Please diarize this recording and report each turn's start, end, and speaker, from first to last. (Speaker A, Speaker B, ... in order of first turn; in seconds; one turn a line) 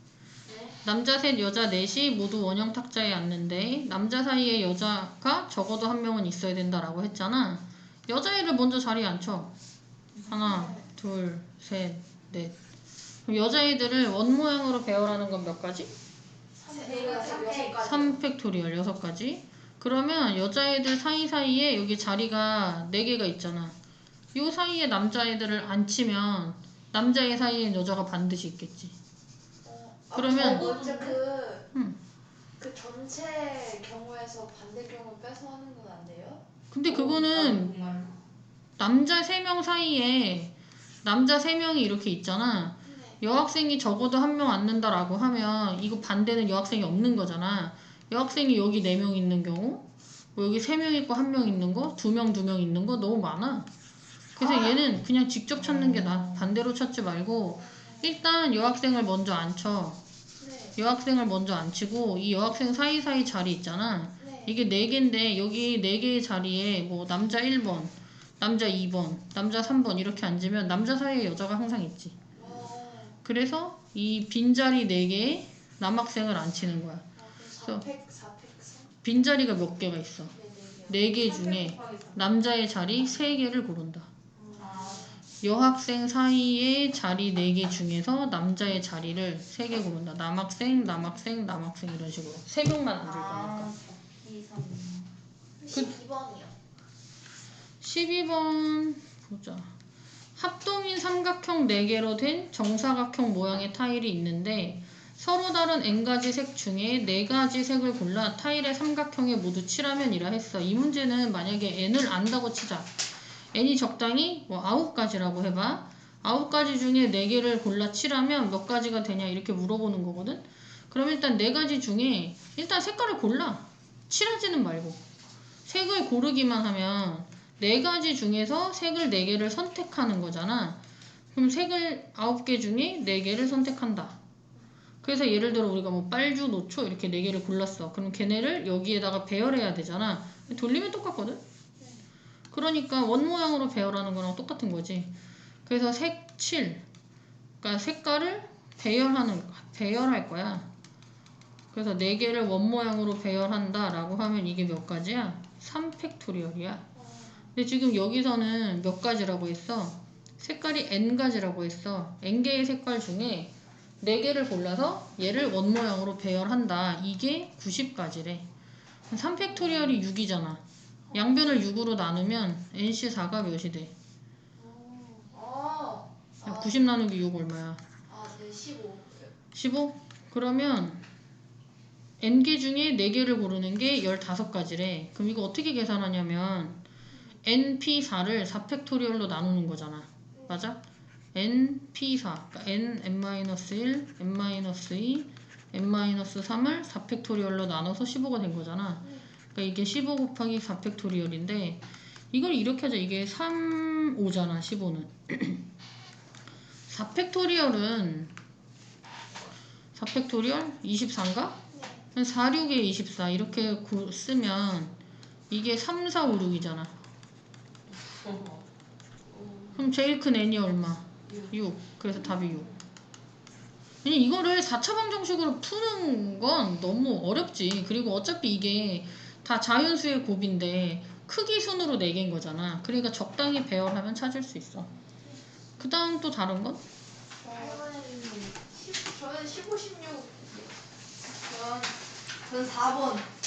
Speaker A: 0.8-9.5
Speaker B: 10.1-10.7
Speaker A: 10.3-12.6
Speaker C: 10.4-10.8
Speaker A: 13.2-15.9
Speaker C: 16.6-18.0
Speaker B: 16.7-18.2
Speaker A: 17.8-23.7
Speaker A: 24.3-28.9
Speaker C: 29.6-31.7
Speaker A: 30.1-30.7
Speaker B: 30.2-31.2
Speaker C: 32.6-36.4
Speaker A: 36.7-37.7
Speaker B: 36.9-38.2
Speaker A: 38.8-40.5
Speaker A: 41.0-53.7
Speaker C: 42.8-43.2
Speaker A: 54.3-60.0
Speaker C: 54.4-54.7
Speaker B: 55.6-56.5
Speaker C: 57.6-58.0
Speaker C: 60.4-60.7
Speaker A: 60.8-72.2
Speaker C: 64.2-64.6
Speaker C: 72.3-73.2
Speaker A: 73.2-77.0
Speaker C: 77.2-78.9
Speaker A: 77.6-77.8
Speaker A: 79.0-80.3
Speaker B: 80.3-82.2
Speaker C: 80.5-81.7
Speaker A: 80.9-84.1
Speaker C: 84.3-85.2
Speaker B: 84.5-85.2
Speaker A: 85.4-93.7
Speaker B: 93.0-95.2
Speaker C: 95.6-96.5
Speaker A: 97.8-99.7
Speaker A: 100.3-112.9
Speaker A: 113.5-125.0
Speaker A: 125.7-130.8
Speaker A: 131.3-134.2
Speaker A: 135.0-141.4
Speaker A: 142.5-145.1
Speaker A: 145.7-146.8
Speaker A: 147.6-150.7
Speaker A: 151.7-156.8
Speaker C: 156.9-157.4
Speaker A: 157.5-168.5
Speaker A: 169.1-173.9
Speaker C: 171.1-171.6
Speaker C: 174.6-176.8
Speaker A: 176.4-177.8
Speaker C: 178.1-179.3
Speaker A: 179.5-181.0
Speaker A: 182.2-186.8
Speaker A: 187.4-190.8
Speaker C: 190.3-190.6
Speaker A: 191.3-201.8
Speaker A: 202.3-205.7
Speaker A: 206.9-208.3
Speaker A: 209.9-211.6
Speaker C: 211.7-212.0
Speaker A: 212.1-214.9
Speaker A: 215.5-216.9
Speaker B: 218.0-218.6
Speaker B: 219.3-219.8
Speaker A: 219.7-222.7
Speaker A: 224.0-234.9
Speaker A: 235.8-236.8
Speaker C: 237.4-237.9
Speaker B: 237.4-238.6
Speaker C: 238.4-240.7
Speaker C: 241.3-243.3